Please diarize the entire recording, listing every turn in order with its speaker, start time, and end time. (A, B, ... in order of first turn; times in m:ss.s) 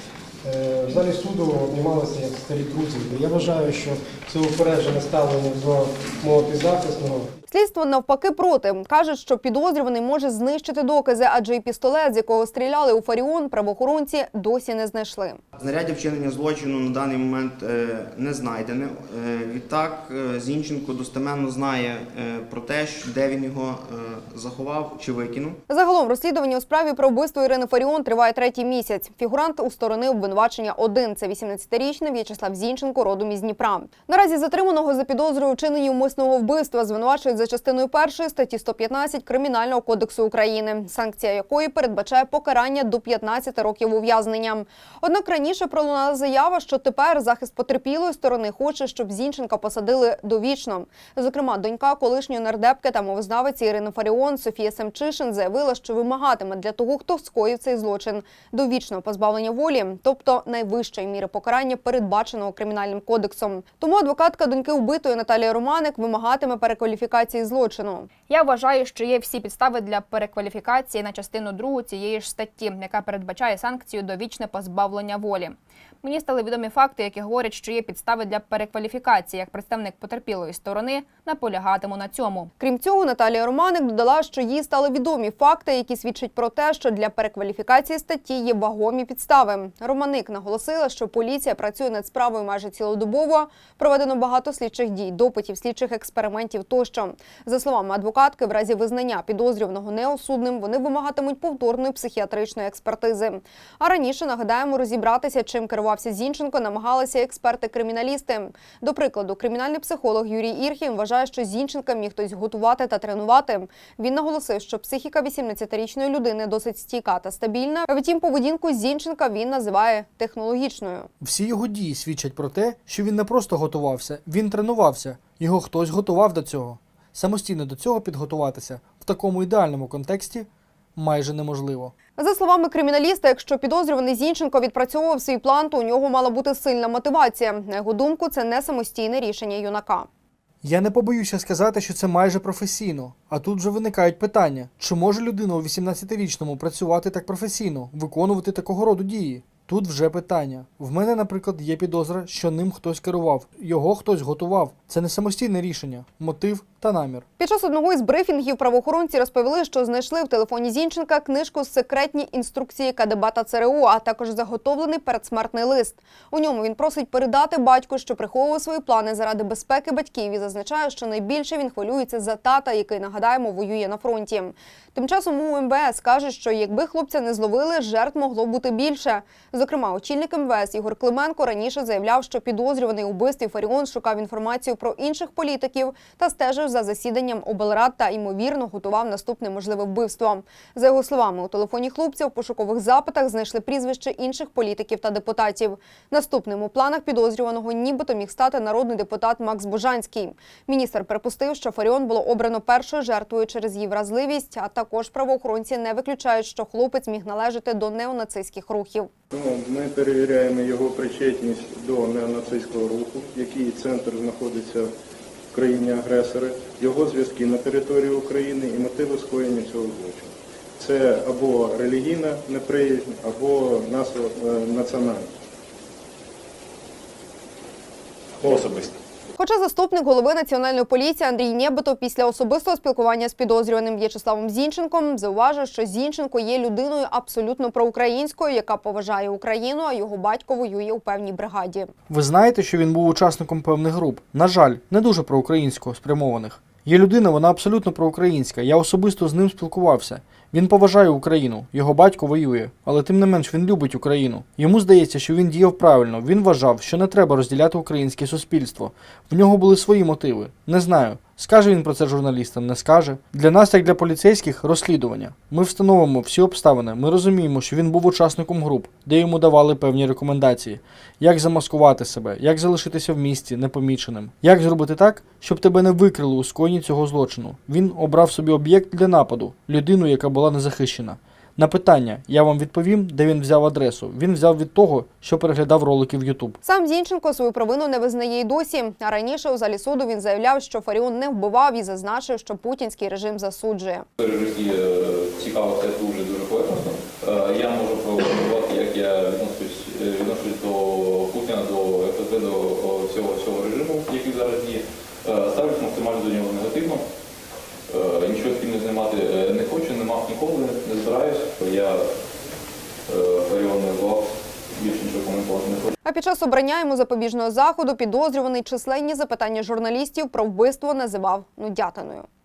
0:00.4-0:07.3 A
0:07.5-0:15.4 B
0:15.6-0:25.6 C
0:25.7-1:08.1 B
1:08.3-1:22.5 D
1:22.6-2:01.1 B
2:01.2-2:11.9 E
2:12.2-2:20.1 B
2:20.6-2:37.2 E
2:37.4-3:29.1 B
3:29.3-3:34.9 F
3:35.5-3:45.3 F
3:48.4-3:49.0 F
3:49.3-4:01.9 B
4:02.1-4:46.6 E
4:46.6-4:54.0 B
4:54.2-5:07.0 G
5:07.9-5:12.0 G
5:13.1-5:15.9 G
5:16.0-5:22.3 B